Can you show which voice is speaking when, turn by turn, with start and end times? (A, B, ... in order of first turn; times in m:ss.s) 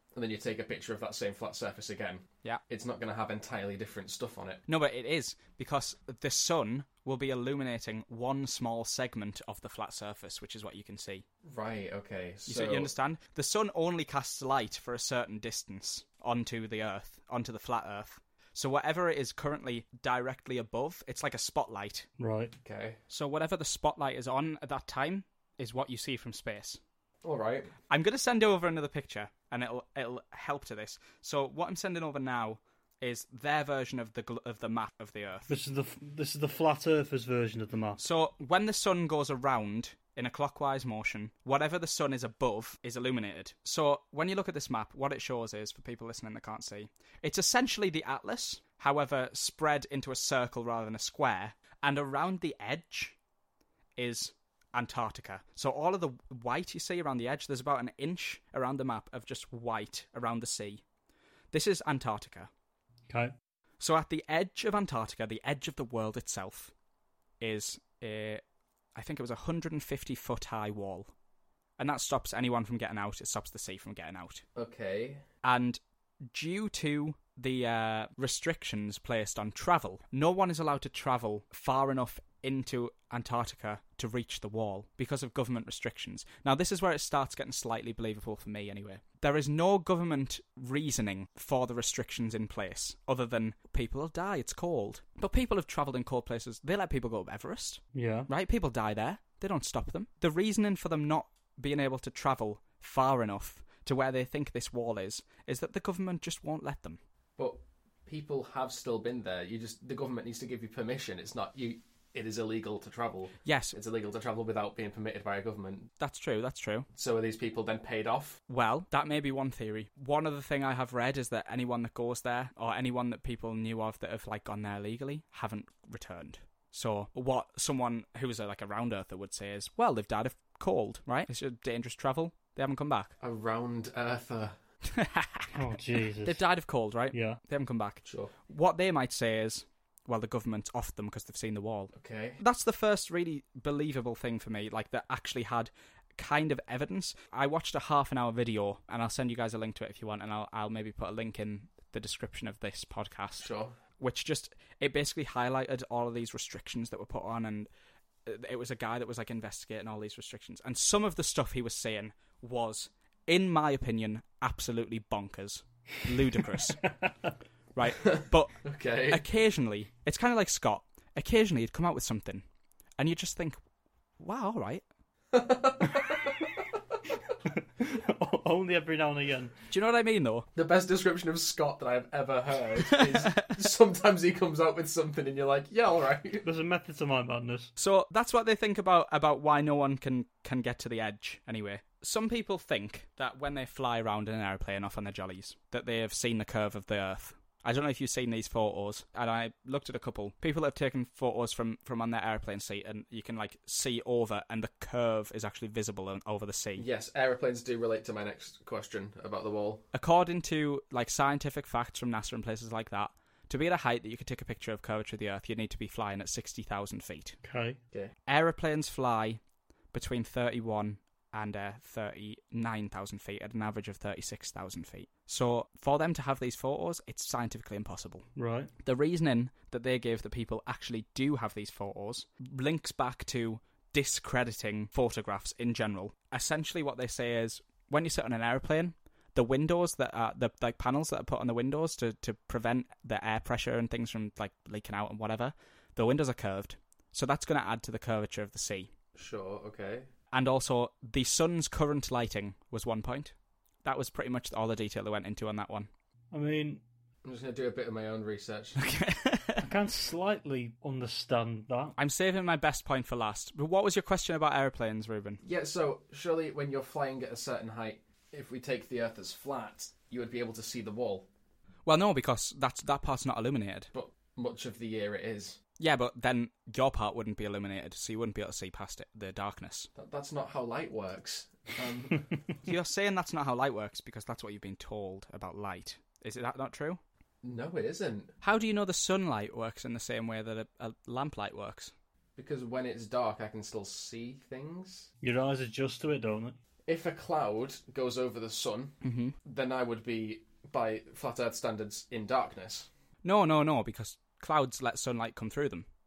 0:00.1-0:04.6 A
0:04.7-0:11.2 B
0:11.4-0:12.9 A
0:12.4-0:22.1 B
0:22.2-0:22.5 C
0:22.6-0:23.0 A
0:23.1-0:26.8 B
0:27.2-0:27.7 A
0:27.9-0:35.5 B
0:35.5-0:38.0 C
0:38.0-0:53.2 B
0:54.0-1:00.8 B
1:01.5-1:02.5 B
1:03.1-1:03.3 C
1:03.8-1:06.7 B
1:07.4-1:08.4 B
1:08.9-1:11.1 B
1:11.8-1:14.4 B
1:14.6-1:15.2 A
1:15.4-1:15.8 B
1:16.3-1:47.0 B
1:37.9-1:38.3 C
1:47.4-1:55.9 A
1:53.4-1:53.8 B
1:56.0-1:56.9 B
1:56.9-1:58.4 A
1:58.5-2:13.1 B
2:13.2-2:14.5 A
2:14.9-2:15.5 B
2:15.5-2:16.4 C
2:16.2-2:37.7 B
2:17.1-2:17.4 C
2:18.0-2:18.3 A
2:22.0-2:22.4 A
2:33.4-2:33.7 A
2:38.2-2:46.8 B
2:47.7-2:48.5 B
2:48.0-2:49.2 A
2:49.1-2:52.4 B
2:53.0-2:53.6 B
2:54.2-2:54.8 B
2:55.3-2:56.5 A
2:57.4-2:59.5 C
2:59.7-3:00.5 B
3:00.5-3:06.4 A
3:02.9-3:03.5 B
3:06.4-3:07.7 C
3:07.8-3:26.8 B
3:26.8-3:29.8 A
3:29.9-3:37.4 B
3:37.4-3:37.8 C
3:38.3-3:39.4 B
3:39.9-3:48.2 B
3:48.4-3:48.7 C
3:48.8-4:08.9 B
4:09.2-4:10.1 A
4:10.3-4:15.9 B
4:16.3-4:16.8 C
4:17.2-4:18.8 A
4:18.8-4:19.6 B
4:19.6-4:22.0 C
4:22.0-4:25.4 B
4:25.4-4:31.2 A
4:31.8-4:33.9 B
4:33.9-4:35.6 A
4:35.8-4:39.9 B
4:40.0-4:42.3 A
4:42.6-4:47.0 B
4:47.4-4:48.3 A
4:48.4-4:51.9 B
4:52.4-4:55.1 A
4:55.2-4:56.6 C
4:56.8-5:02.9 A
4:59.0-4:59.3 B
5:03.2-5:05.8 B